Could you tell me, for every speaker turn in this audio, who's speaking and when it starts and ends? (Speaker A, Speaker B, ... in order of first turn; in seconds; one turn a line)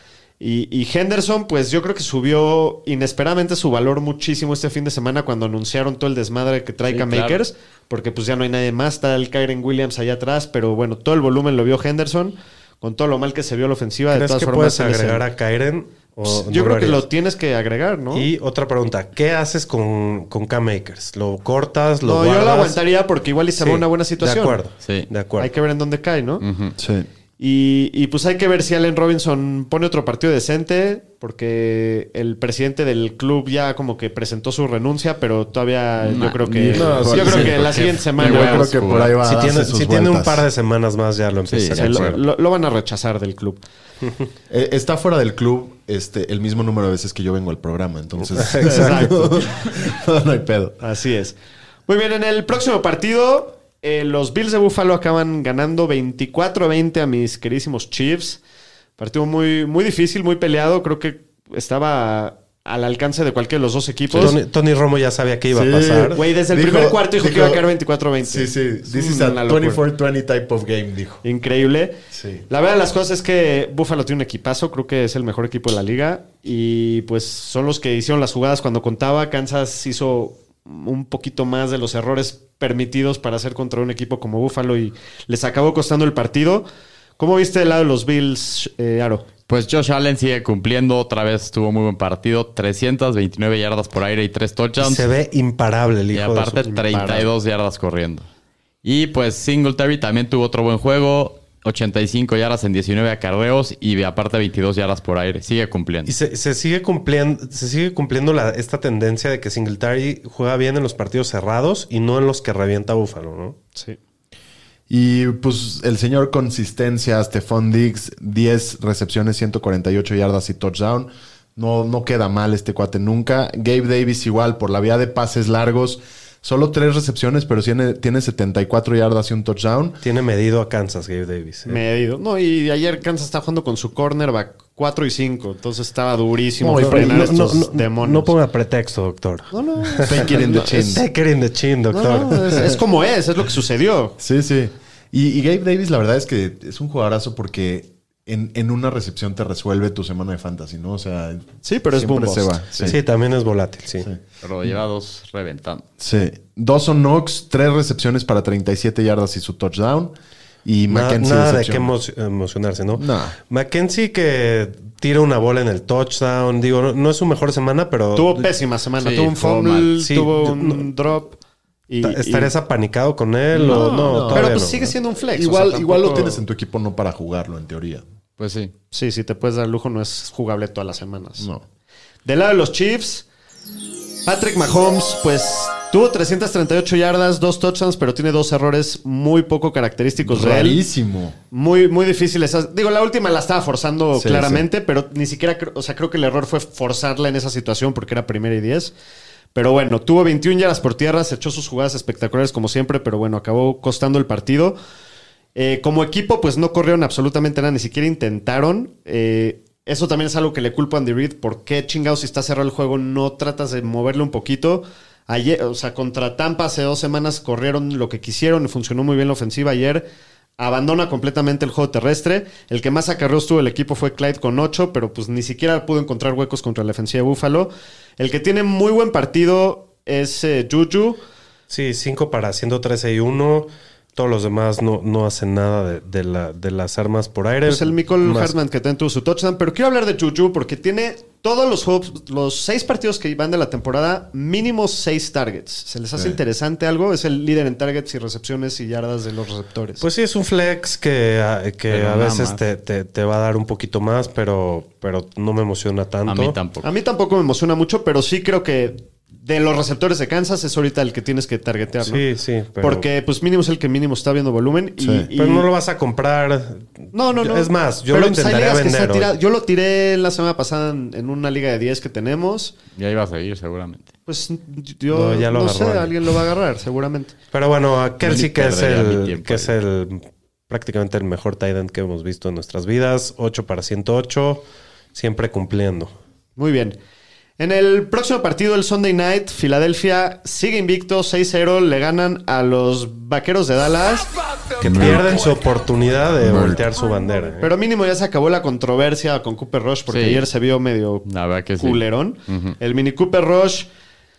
Speaker A: 0.4-15.2
Speaker B: 6.9-7.4
Speaker C: 14.1-17.1
Speaker A: 16.3-18.3
Speaker C: 18.1-22.8
Speaker A: 22.0-24.6
Speaker C: 23.6-25.5
Speaker B: 24.8-25.1
Speaker A: 25.4-26.4
Speaker B: 26.4-26.8
Speaker D: 26.8-27.1
Speaker A: 27.4-38.8
Speaker B: 36.0-39.2
Speaker D: 36.5-40.5
Speaker C: 36.8-37.4
Speaker C: 39.2-42.2
Speaker B: 41.5-42.2
Speaker A: 41.8-43.6
Speaker D: 44.5-50.8
Speaker C: 48.4-49.1
Speaker A: 48.6-49.5
Speaker A: 50.8-51.4
Speaker A: 51.9-58.4
Speaker A: 59.0-64.4
Speaker C: 64.2-66.2
Speaker D: 65.5-67.7
Speaker A: 66.1-69.8
Speaker D: 68.2-71.2
Speaker A: 71.2-86.7
Speaker D: 72.1-72.5
Speaker A: 87.2-89.3
Speaker B: 89.5-95.1
Speaker C: 94.8-96.6
Speaker B: 96.1-98.3
Speaker A: 96.6-97.3
Speaker B: 98.8-106.1
Speaker C: 106.1-113.6
Speaker D: 114.9-130.0
Speaker C: 130.0-131.8
Speaker A: 131.7-138.3
Speaker D: 136.6-137.5
Speaker C: 136.8-142.7
Speaker A: 139.5-140.9
Speaker D: 140.0-141.1
Speaker A: 141.9-144.2
Speaker D: 144.2-153.0
Speaker A: 151.6-152.6
Speaker C: 152.9-154.1
Speaker B: 154.4-155.8
Speaker D: 156.0-161.9
Speaker C: 160.9-168.5
Speaker D: 163.0-163.4
Speaker A: 168.2-171.4
Speaker B: 169.0-169.9
Speaker C: 170.0-170.9
Speaker A: 171.9-172.5
Speaker C: 172.0-174.8
Speaker D: 173.5-178.1
Speaker A: 173.7-176.4
Speaker B: 178.4-178.7
Speaker A: 178.9-181.5
Speaker D: 181.4-181.7
Speaker A: 182.2-183.3
Speaker A: 184.2-190.8
Speaker D: 190.2-191.4
Speaker A: 191.5-198.9
Speaker D: 194.1-194.7
Speaker A: 199.5-204.8
Speaker A: 205.6-220.1
Speaker A: 220.6-231.2
Speaker C: 231.7-238.5
Speaker A: 237.7-250.0
Speaker C: 250.0-256.6
Speaker B: 251.9-252.6
Speaker B: 256.3-256.9
Speaker A: 256.8-262.2
Speaker C: 262.0-263.1
Speaker A: 262.8-265.7
Speaker D: 265.0-265.3
Speaker C: 265.4-269.3
Speaker A: 267.1-272.8
Speaker B: 272.9-274.1
Speaker A: 274.3-277.4
Speaker C: 275.1-276.1
Speaker C: 277.5-284.6
Speaker B: 278.2-279.8
Speaker C: 285.1-286.1
Speaker A: 286.6-287.0
Speaker A: 287.6-294.3
Speaker B: 294.8-295.4
Speaker C: 294.8-297.7
Speaker D: 296.5-296.8
Speaker A: 297.6-301.3
Speaker B: 300.1-300.5
Speaker B: 301.2-302.8
Speaker A: 301.8-303.9